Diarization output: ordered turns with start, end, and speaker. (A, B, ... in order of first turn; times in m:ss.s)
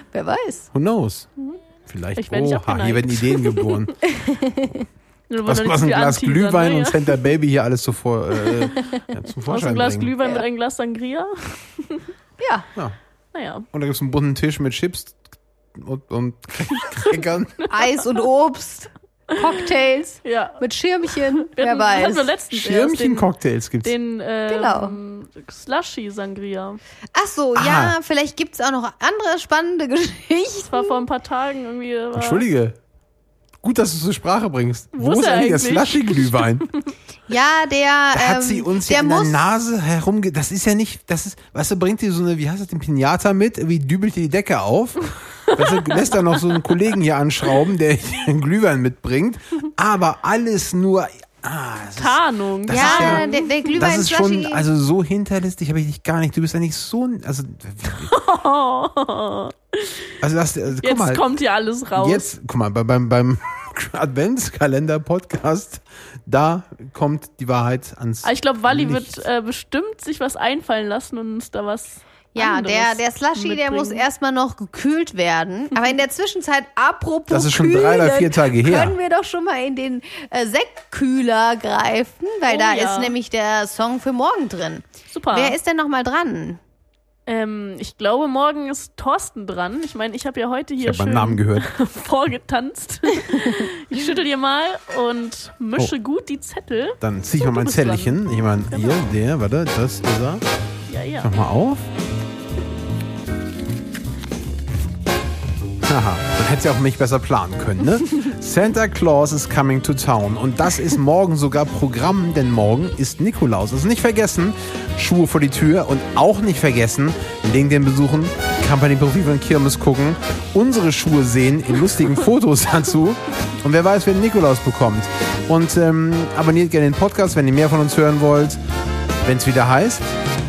0:00.1-0:00.7 A
0:00.7-0:01.3 B
0:01.9-0:04.1 B
0:02.2-0:03.8 C
0:04.2-0:04.9 A
0:05.3-0:07.2 C
0:05.4-0:10.2 B
0:08.9-0:12.1 C
0:12.4-0:12.7 A
0:13.3-0:13.7 C
0:13.7-0:17.7 B
0:17.7-0:22.3 A
0:20.2-0:20.6 C
0:21.1-0:23.3 C
0:22.5-0:23.9 B
0:23.8-0:26.8 C
0:24.5-0:25.0 A
0:27.1-0:31.0 A
0:27.6-0:28.0 B
0:30.6-0:32.4 C
0:32.2-0:32.8 B
0:33.6-0:36.7 B
0:34.9-0:36.9 C
0:37.3-0:39.5 A
0:38.1-0:58.1 B
0:45.6-0:46.0 C
0:52.0-0:53.5 C
0:52.7-0:54.7 A
0:58.1-1:00.1 C
1:00.2-1:01.3 B
1:00.8-1:02.3 C
1:02.0-1:09.2 B
1:08.2-1:14.0 C
1:12.3-1:26.6 A
1:17.3-1:19.0 B
1:22.5-1:23.2 C
1:25.1-1:25.6 C
1:27.3-1:39.1 C
1:30.8-1:31.7 B
1:37.0-1:40.4 B
1:40.9-1:41.3 C
1:41.2-1:41.9 B
1:45.8-2:08.6 B
2:09.2-2:10.1 B